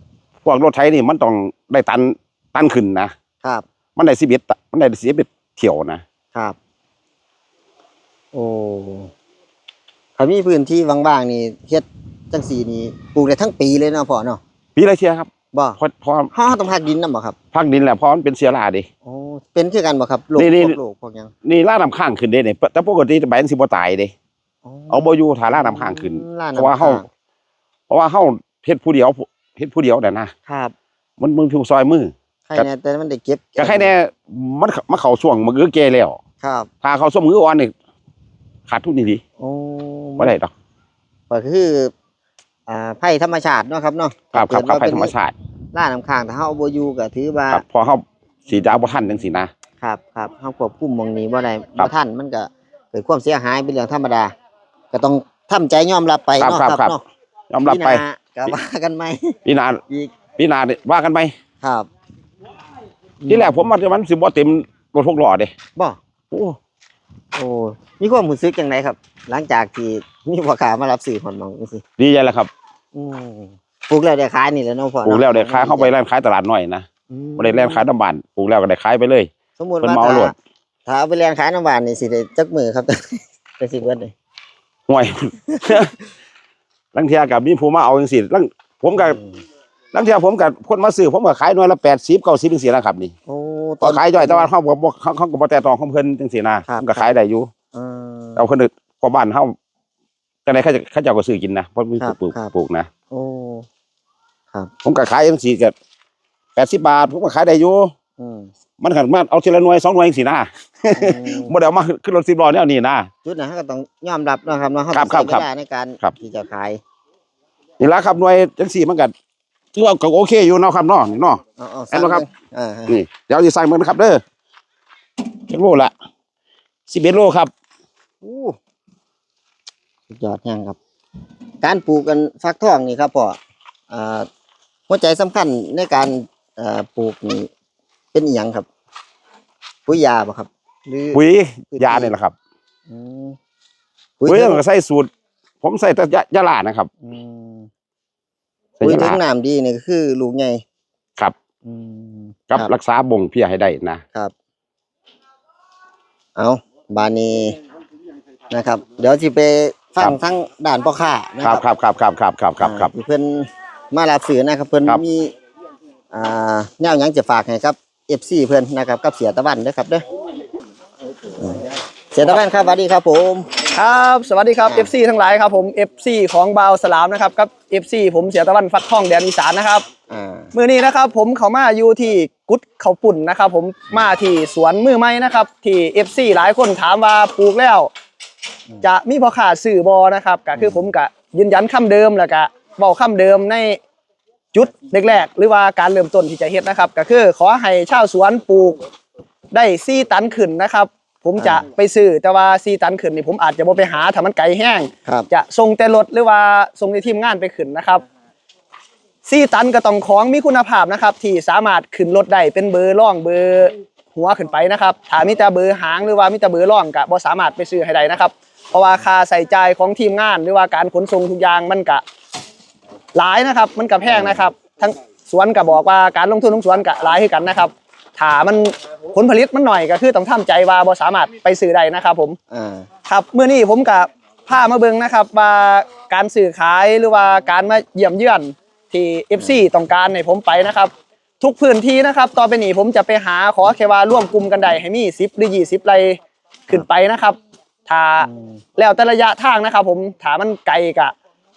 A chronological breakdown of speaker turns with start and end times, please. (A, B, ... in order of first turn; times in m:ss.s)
0:00.4-0:03.1 A
0:04.0-0:06.0 A
0:08.3-0:09.1 B
0:10.2-0:14.4 B
0:14.8-0:16.3 A
0:15.5-0:15.8 B
0:16.3-0:17.4 B
0:17.5-0:18.9 A
0:19.0-0:21.3 B
0:20.4-0:20.8 A
0:21.4-0:24.1 A
0:24.6-0:27.1 B
0:24.9-0:27.0 A
0:27.9-0:30.3 A
0:30.4-0:30.7 B
0:31.2-0:32.7 A
0:32.5-0:33.9 B
0:33.6-0:36.2 A
0:36.4-0:36.7 B
0:36.8-0:37.7 A
0:38.7-0:39.2 A
0:39.4-0:40.3 B
0:40.2-0:40.5 A
0:41.3-0:41.9 B
0:42.7-0:45.1 B
0:44.3-0:45.3 A
0:45.7-0:47.6 B
0:47.5-0:49.5 A
0:48.5-0:49.2 B
0:49.8-0:54.3 B
0:54.9-0:57.0 B
0:56.4-0:57.0 A
0:57.5-0:58.5 A
0:57.6-0:59.4 B
0:59.4-0:59.8 A
1:00.4-1:01.3 A
1:01.6-1:01.9 B
1:03.2-1:03.7 B
1:03.3-1:05.5 A
1:05.8-1:06.6 B
1:07.3-1:11.8 B
1:12.0-1:12.5 A
1:12.9-1:15.9 B
1:15.0-1:16.8 A
1:17.1-1:17.8 B
1:17.4-1:19.3 A
1:19.6-1:20.3 B
1:19.8-1:20.3 A
1:20.8-1:24.1 B
1:24.9-1:25.9 A
1:26.9-1:29.2 A
1:29.0-1:29.4 B
1:29.9-1:33.1 A
1:33.3-1:34.5 B
1:33.8-1:37.5 A
1:36.7-1:37.1 B
1:37.7-1:38.4 B
1:38.4-1:39.5 A
1:40.4-1:42.9 A
1:42.0-1:42.5 B
1:43.1-1:43.6 B
1:44.8-1:45.7 A
1:46.6-1:47.9 A
1:48.2-1:48.5 B
1:48.8-1:53.1 A
1:50.9-1:51.5 B
1:53.2-1:56.8 B
1:54.9-1:55.4 A
1:57.8-1:59.1 A
1:59.7-2:01.4 A
2:01.6-2:03.0 B
2:01.9-2:02.2 A
2:02.9-2:04.2 A
2:05.5-2:05.9 A
2:06.9-2:07.5 A
2:08.2-2:08.6 B
2:10.1-2:10.8 B
2:11.6-2:13.4 B
2:13.9-2:14.3 B
2:14.9-2:17.5 B
2:18.1-2:18.6 B
2:19.8-2:21.2 B
2:21.1-2:22.3 A
2:21.7-2:22.1 B
2:22.9-2:23.4 B
2:24.2-2:24.6 B
2:24.3-2:25.1 A
2:25.6-2:26.9 A
2:27.0-2:27.7 B
2:28.8-2:29.2 A
2:28.8-2:30.6 B
2:31.6-2:32.7 B
2:32.5-2:34.0 A
2:36.4-2:37.6 B
2:38.5-2:41.6 B
2:41.4-2:42.9 A
2:42.6-2:45.3 B
2:46.1-2:50.0 B
2:51.4-2:53.5 B
2:53.7-2:59.8 C
3:00.1-3:00.5 B
3:00.5-3:07.9 C
3:08.8-3:13.8 C
3:10.6-3:10.9 B
3:14.5-3:18.8 C
3:19.5-3:28.0 C
3:21.4-3:21.6 B
3:29.2-3:42.0 C
3:43.1-3:52.4 C
3:44.0-3:44.5 B
3:52.5-3:52.9 B
3:53.1-4:11.1 C
3:59.3-3:59.6 B
4:08.2-4:08.6 B